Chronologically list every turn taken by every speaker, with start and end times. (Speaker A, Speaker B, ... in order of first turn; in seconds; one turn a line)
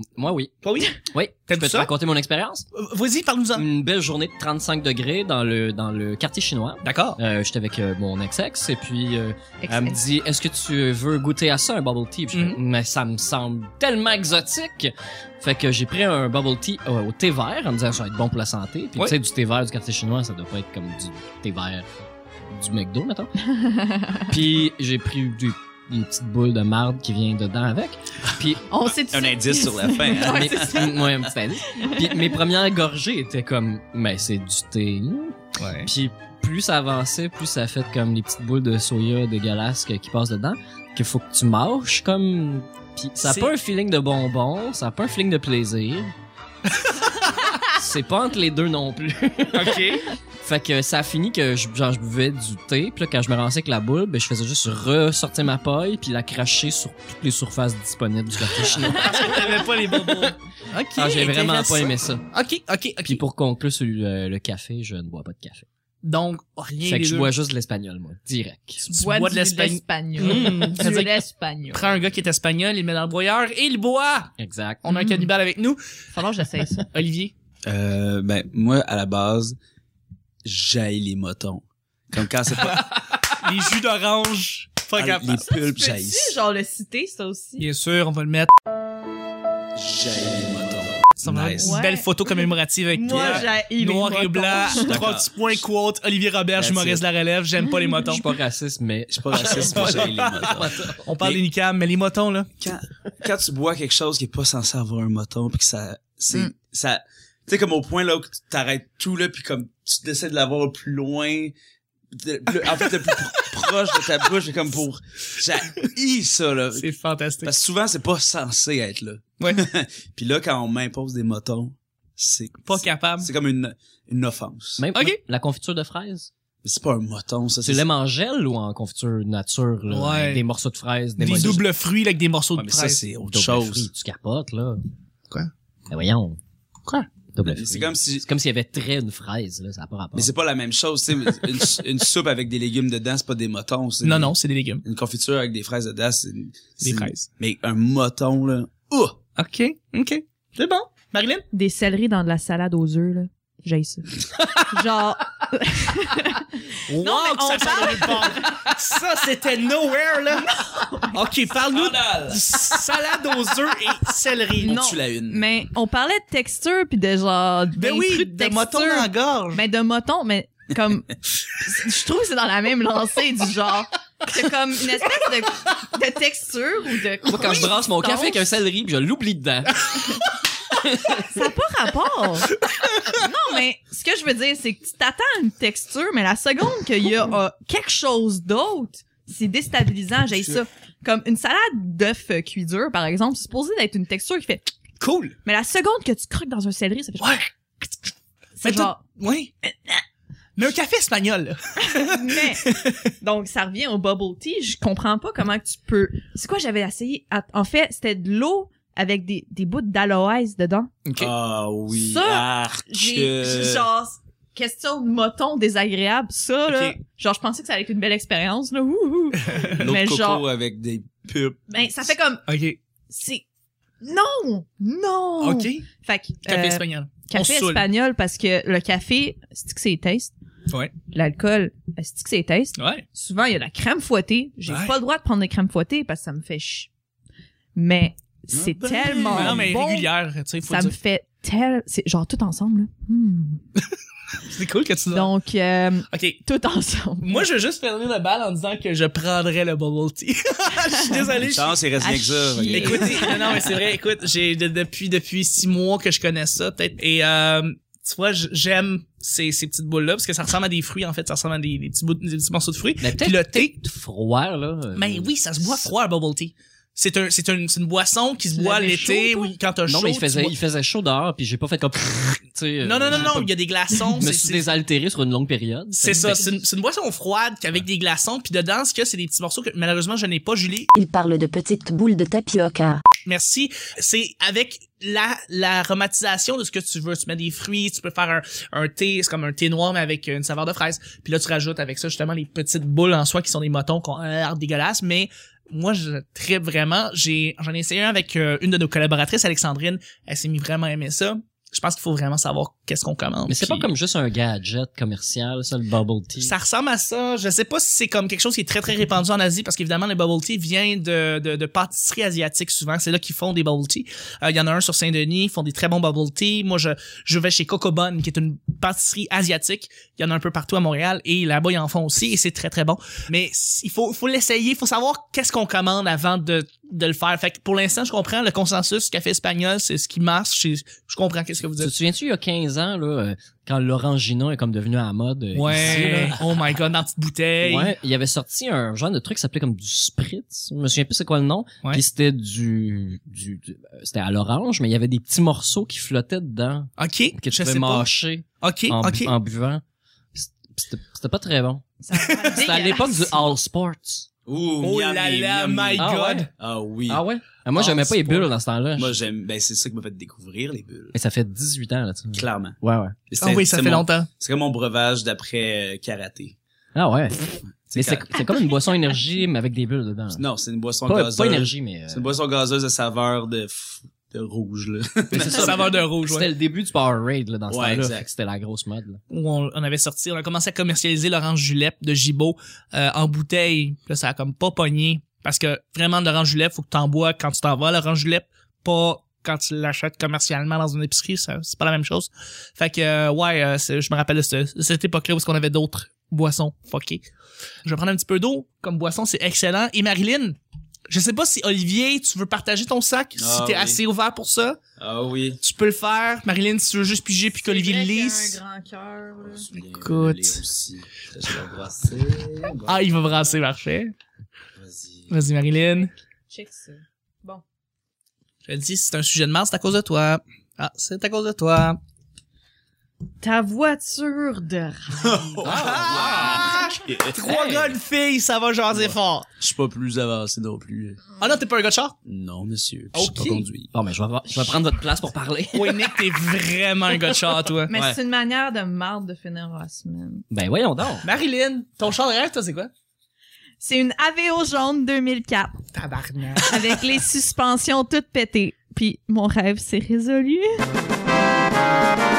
Speaker A: 0.1-0.5
Speaker B: 0.6-0.9
Speaker A: 1.1-2.6
Speaker B: 1.5-1.9
Speaker B: 2.7-3.7
Speaker A: 3.5-21.9
Speaker B: 6.8-7.2
Speaker C: 9.6-10.0
Speaker B: 12.3-12.6
Speaker A: 22.5-23.3
Speaker C: 23.5-24.3
Speaker A: 24.3-28.7
Speaker C: 28.7-31.1
Speaker D: 29.1-31.1
Speaker A: 30.1-46.1
Speaker C: 31.6-32.3
Speaker B: 35.6-35.9
Speaker B: 43.2-43.5
Speaker B: 46.8-47.1
Speaker A: 47.6-59.7
Speaker B: 49.5-50.0
Speaker B: 58.8-63.2
Speaker A: 60.9-62.2
Speaker A: 63.0-65.7
Speaker B: 66.0-67.3
Speaker A: 66.8-68.8
Speaker B: 68.8-71.2
Speaker C: 68.9-72.0
Speaker B: 71.7-74.3
Speaker A: 74.4-74.8
Speaker B: 74.8-75.8
Speaker C: 74.9-75.3
Speaker C: 76.1-76.8
Speaker B: 76.9-77.3
Speaker D: 77.7-79.6
Speaker D: 80.4-82.9
Speaker B: 82.7-85.5
Speaker D: 85.0-86.4
Speaker C: 85.5-87.7
Speaker B: 87.6-88.5
Speaker D: 89.8-91.8
Speaker B: 91.2-98.2
Speaker C: 91.6-94.9
Speaker D: 93.1-93.5
Speaker D: 94.8-95.3
Speaker D: 96.6-97.0
Speaker A: 98.0-101.4
Speaker D: 99.1-101.3
Speaker B: 99.4-100.2
Speaker B: 101.0-102.5
Speaker D: 102.6-111.5
Speaker D: 112.1-116.9
Speaker B: 112.6-114.3
Speaker B: 116.7-117.5
Speaker D: 117.4-124.8
Speaker B: 122.7-123.3
Speaker A: 124.8-126.3
Speaker D: 126.6-127.8
Speaker A: 127.6-131.6
Speaker B: 129.9-130.4
Speaker B: 131.2-133.0
Speaker D: 132.6-133.9
Speaker A: 133.3-134.8
Speaker A: 135.9-136.4
Speaker A: 137.3-140.3
Speaker D: 137.4-138.2
Speaker D: 140.1-144.3
Speaker B: 144.0-144.8
Speaker D: 144.8-149.2
Speaker B: 146.8-147.2
Speaker B: 149.3-151.4
Speaker C: 151.5-158.8
Speaker B: 156.9-164.8
Speaker C: 160.5-161.2
Speaker D: 161.7-162.4
Speaker C: 164.6-178.5
Speaker D: 164.6-165.4
Speaker B: 167.8-169.6
Speaker A: 177.2-179.9
Speaker A: 180.7-181.3
Speaker C: 181.1-194.7
Speaker B: 195.0-195.3
Speaker C: 195.4-197.4
Speaker B: 197.2-197.5
Speaker C: 198.6-199.0
Speaker B: 198.6-199.5
Speaker B: 200.6-203.0
Speaker C: 201.8-210.9
Speaker B: 211.1-211.3
Speaker D: 211.2-213.9
Speaker C: 211.9-220.4
Speaker B: 216.7-217.0
Speaker D: 219.7-221.6
Speaker C: 221.7-222.4
Speaker B: 222.5-222.8
Speaker C: 223.1-223.4
Speaker C: 224.0-230.3
Speaker B: 225.4-225.8
Speaker B: 226.4-227.8
Speaker C: 231.1-236.9
Speaker B: 232.8-233.0
Speaker B: 234.7-234.9
Speaker C: 237.7-240.1
Speaker D: 238.5-239.7
Speaker B: 239.3-240.9
Speaker C: 240.7-243.6
Speaker B: 244.4-245.3
Speaker C: 245.1-247.4
Speaker B: 246.1-246.4
Speaker B: 247.2-251.8
Speaker C: 250.9-251.3
Speaker D: 251.4-253.5
Speaker C: 252.0-253.6
Speaker B: 252.7-263.7
Speaker A: 263.0-265.9
Speaker B: 264.9-270.5
Speaker C: 268.5-269.5
Speaker A: 269.9-273.4
Speaker B: 272.8-274.6
Speaker C: 273.9-274.2
Speaker A: 274.2-276.5
Speaker B: 275.9-280.9
Speaker E: 280.9-283.0
Speaker B: 283.2-303.9
Speaker A: 303.5-306.5
Speaker B: 306.4-331.9
Speaker A: 331.8-336.4
Speaker B: 335.5-337.9
Speaker A: 337.6-349.8
Speaker B: 347.0-348.1
Speaker B: 348.6-349.3
Speaker A: 350.3-354.3
Speaker C: 352.0-353.4
Speaker D: 354.5-357.2
Speaker B: 354.8-356.5
Speaker A: 356.0-356.5
Speaker A: 357.1-359.2
Speaker B: 357.8-358.4
Speaker D: 358.9-361.1
Speaker A: 361.1-363.1
Speaker D: 362.3-362.8
Speaker D: 363.3-366.6
Speaker B: 363.4-364.3
Speaker A: 366.9-370.4
Speaker D: 367.9-368.4
Speaker D: 370.3-376.0
Speaker A: 371.1-372.3
Speaker B: 375.3-376.5
Speaker A: 375.4-379.2
Speaker D: 377.7-378.2
Speaker B: 379.3-397.2
Speaker B: 397.8-400.6
Speaker B: 401.1-404.8
Speaker D: 403.4-404.0
Speaker D: 405.0-405.6
Speaker B: 405.6-408.6
Speaker C: 407.6-409.7
Speaker D: 409.4-413.0
Speaker B: 409.8-410.6
Speaker B: 412.8-414.1
Speaker D: 414.8-415.3
Speaker B: 415.3-416.1
Speaker C: 416.5-417.6
Speaker B: 418.6-422.0
Speaker C: 423.4-425.6
Speaker D: 425.2-427.4
Speaker A: 425.6-426.8
Speaker B: 425.6-429.5
Speaker A: 427.4-427.9
Speaker D: 428.9-431.2
Speaker B: 431.4-432.1
Speaker D: 432.2-433.9
Speaker B: 433.1-433.6
Speaker A: 433.9-436.3
Speaker B: 435.7-437.9
Speaker C: 437.9-440.4
Speaker A: 437.9-438.2
Speaker A: 440.5-441.2
Speaker B: 441.2-442.9
Speaker C: 443.8-445.8
Speaker B: 445.9-447.0
Speaker C: 446.6-450.8